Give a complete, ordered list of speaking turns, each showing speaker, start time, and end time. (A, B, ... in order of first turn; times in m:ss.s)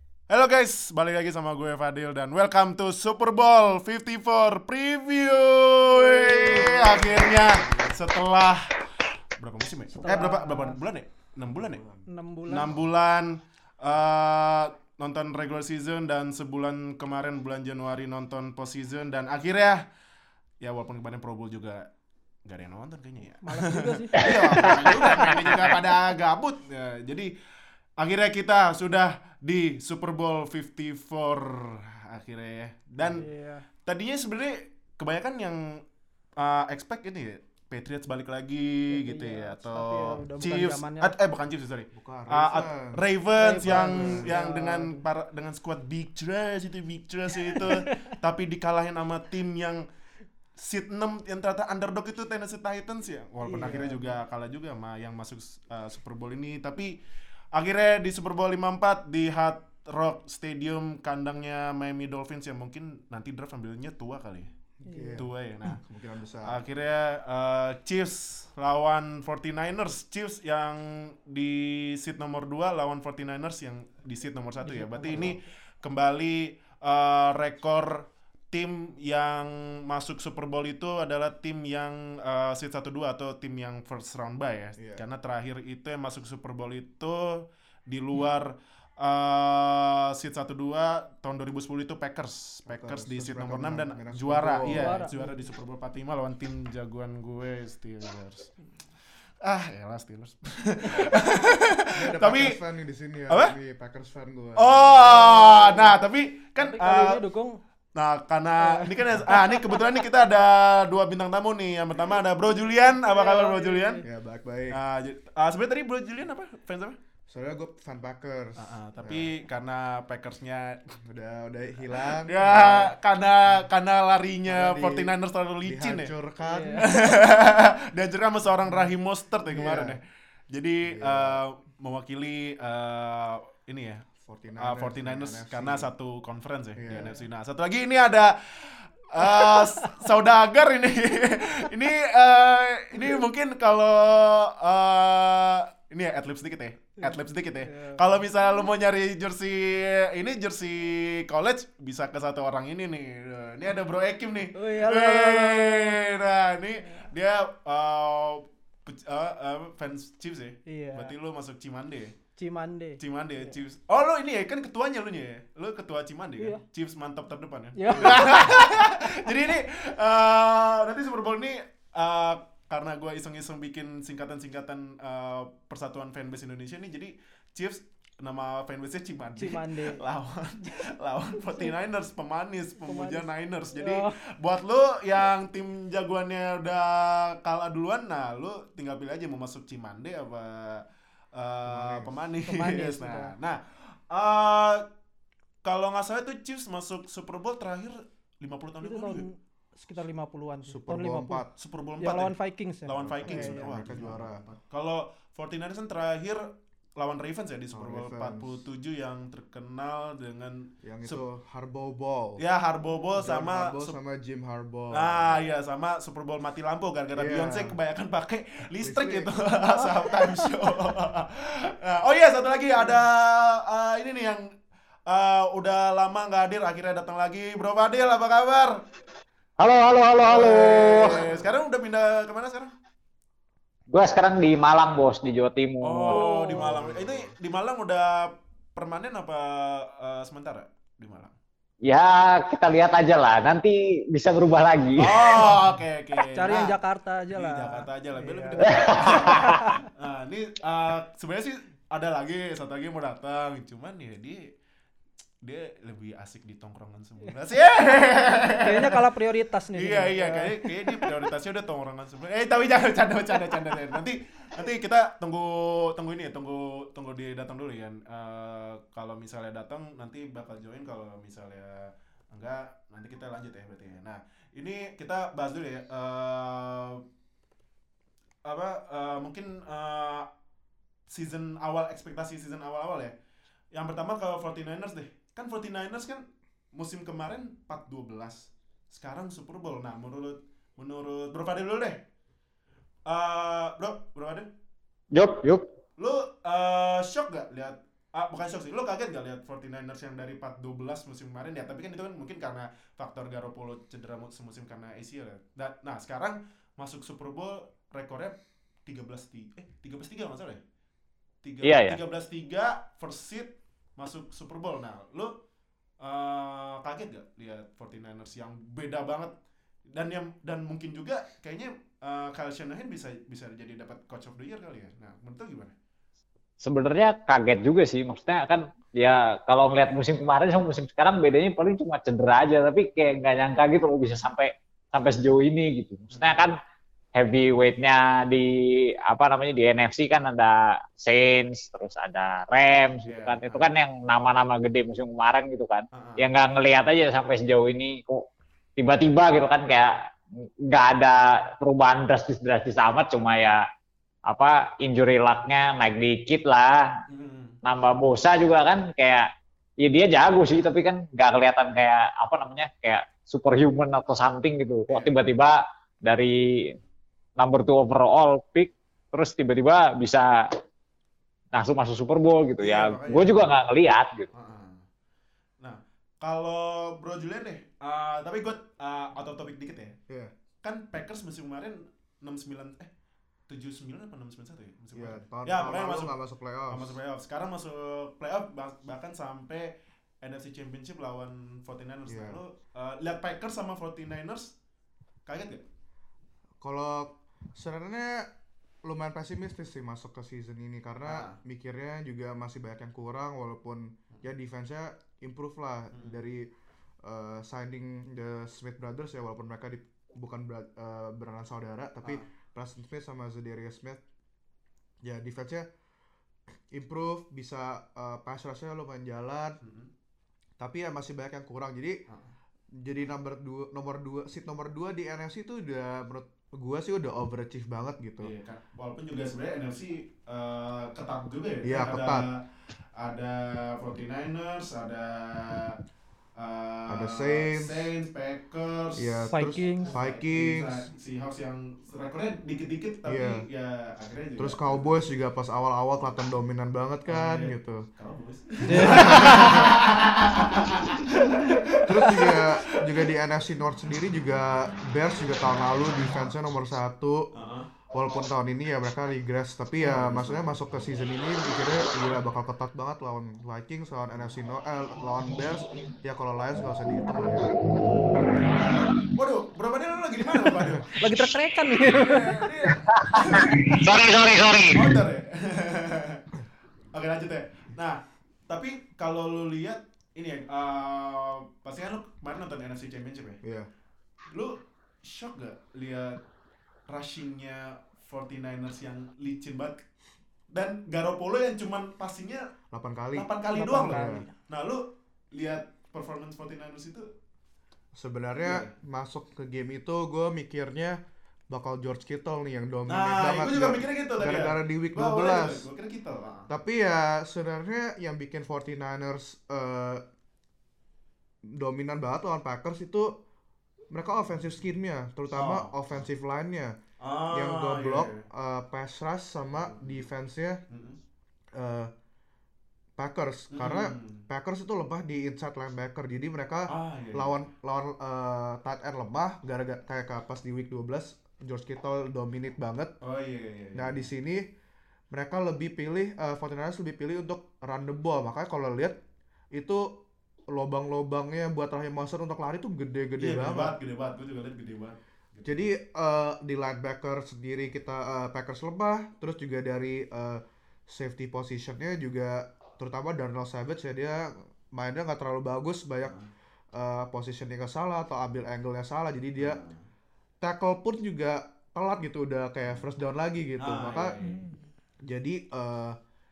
0:00.3-0:08.8 A
0:05.9-0:08.0 B
0:09.4-0:11.8 A
0:09.9-0:10.8 C
0:11.5-0:12.0 B
0:12.1-0:12.7 C
0:12.5-0:19.8 A
0:20.6-0:21.9 A
0:22.4-0:27.3 A
0:23.4-0:25.4 C
0:24.2-0:25.6 D
0:28.0-0:33.2 A
0:33.1-0:33.6 C
0:33.8-0:35.8 A
0:36.4-0:49.8 A
0:38.9-0:41.1 C
0:41.9-0:43.0 B
0:43.4-0:45.0 C
0:43.6-0:44.3 B
0:47.5-0:47.9 C
0:50.6-0:57.0 A
0:53.4-0:54.2 C
0:57.5-1:04.5 A
1:04.8-1:06.6 B
1:04.8-1:05.2 C
1:05.1-1:05.8 A
1:06.4-1:38.5 A
1:14.6-1:15.5 C
1:24.8-1:25.0 B
1:32.7-1:35.0 B
1:34.7-1:35.5 C
1:39.4-1:42.6 A
1:40.9-1:41.2 C
1:42.0-1:45.8 B
1:43.3-1:43.5 A
1:44.6-1:47.2 A
1:46.6-1:47.6 C
1:47.9-1:54.0 A
1:48.6-1:49.9 C
1:52.8-1:54.0 C
1:54.0-1:54.8 B
1:54.7-1:57.0 A
1:57.3-1:59.3 B
1:58.6-2:01.0 A
2:01.0-2:02.9 B
2:01.9-2:06.1 A
2:04.5-2:05.1 B
2:05.6-2:06.9 B
2:06.4-2:06.9 C
2:06.7-2:42.2 A
2:08.6-2:08.9 B
2:09.5-2:10.0 B
2:10.8-2:11.4 B
2:14.2-2:15.9 B
2:16.8-2:17.2 B
2:27.7-2:28.2 C
2:34.5-2:36.0 C
2:40.7-2:41.1 C
2:42.4-2:43.5 C
2:43.0-3:14.8 A
2:47.8-2:48.5 C
2:59.4-3:00.0 C
3:02.8-3:04.1 C
3:11.6-3:12.1 B
3:12.5-3:13.3 C
3:15.6-3:19.2 A
3:18.8-3:21.4 C
3:20.7-3:21.5 B
3:21.6-3:22.3 A
3:22.0-3:24.1 C
3:22.9-3:31.2 A
3:23.2-3:24.6 B
3:27.7-3:28.6 B
3:30.8-3:32.4 B
3:32.4-3:34.0 A
3:33.2-3:35.4 B
3:34.9-3:44.5 A
3:37.2-3:37.8 B
3:38.8-3:39.3 B
3:45.1-3:48.8 A
3:49.6-3:51.4 D
3:50.2-3:52.7 A
3:53.9-3:56.2 D
3:55.8-4:01.3 A
3:56.1-3:56.6 C
3:56.5-3:57.3 B
4:01.8-4:05.5 D
4:05.0-4:06.8 A
4:06.3-4:09.7 C
4:07.3-4:14.5 A
4:08.6-4:09.6 D
4:15.4-4:19.0 A
4:18.6-4:21.2 C
4:19.7-4:37.0 A
4:38.4-4:40.3 A
4:41.1-4:43.1 A
4:43.7-4:52.0 A
4:53.1-4:54.5 A
4:55.1-4:55.6 D
4:56.0-5:10.6 A
5:11.4-5:15.3 A
5:11.6-5:12.0 D
5:16.0-5:19.3 A
5:19.9-5:25.7 A
5:26.6-5:36.6 D
5:36.1-5:36.5 A
5:37.2-5:48.2 D
5:43.0-5:43.7 A
5:45.9-5:46.3 A
5:48.8-5:50.0 D
5:50.7-5:53.6 D
5:54.3-5:56.9 D
5:57.1-5:57.6 A
5:57.6-5:59.3 D
5:59.8-6:06.7 D
6:04.9-6:05.2 A
6:07.4-6:10.3 D
6:11.5-6:14.3 D
6:12.6-6:13.4 A
6:14.3-6:14.8 A
6:15.6-6:19.9 A
6:20.6-6:22.9 A
6:23.5-6:26.2 A
6:24.9-6:27.0 B
6:26.7-6:34.5 A
6:32.0-6:32.4 B
6:35.2-6:35.6 A
6:36.6-6:38.3 B
6:38.8-6:46.5 B
6:41.0-6:41.4 A
6:47.0-6:54.0 B
6:55.0-6:55.7 B
6:56.7-6:59.6 B
6:59.6-6:59.9 A
7:00.6-7:02.0 B
7:02.1-7:02.3 A
7:02.8-7:08.3 B
7:08.2-7:12.4 A
7:11.6-7:12.3 B
7:13.0-7:15.8 A
7:16.4-7:19.3 A
7:16.9-7:17.9 B
7:19.0-7:20.9 B
7:19.3-7:19.9 C
7:19.8-7:25.0 A
7:23.0-7:23.4 B
7:24.4-7:27.9 B
7:27.1-7:33.1 A
7:28.6-7:29.7 C
7:28.6-7:29.8 B
7:31.8-7:37.3 B
7:37.3-7:37.7 A
7:37.9-7:47.5 B
7:39.8-7:40.9 A
7:49.1-7:51.0 A
7:51.0-7:52.4 C
7:51.8-7:53.7 A
7:53.0-7:55.0 D
7:54.7-7:56.2 A
7:56.9-8:03.4 A
8:03.4-8:03.7 B
8:04.3-8:06.2 A
8:06.9-8:09.8 A
8:10.5-8:12.5 A
8:12.7-8:13.3 B
8:13.1-8:17.1 A
8:13.5-8:14.3 C
8:13.8-8:14.2 B
8:17.9-8:21.0 B
8:18.4-8:18.7 A
8:21.5-8:25.6 B
8:22.9-8:26.5 A
8:26.5-8:30.0 B
8:31.4-8:33.1 B
8:33.9-8:36.8 B
8:35.3-8:35.8 A
8:37.0-8:38.2 A
8:37.3-8:40.6 B
8:39.6-8:40.0 A
8:40.7-8:41.0 A
8:41.5-8:41.9 B
8:43.0-8:52.9 B
8:43.5-8:44.2 A
8:46.7-8:47.4 A
8:53.0-8:54.1 A
8:53.7-8:54.4 B
8:55.1-8:59.0 B
8:59.5-8:59.9 B
9:00.5-9:03.7 B
9:03.2-9:05.7 A
9:05.4-9:16.2 B
9:16.7-9:19.6 B
9:19.4-9:19.8 A
9:20.4-9:24.2 B
9:23.6-9:24.5 A
9:25.0-9:26.0 B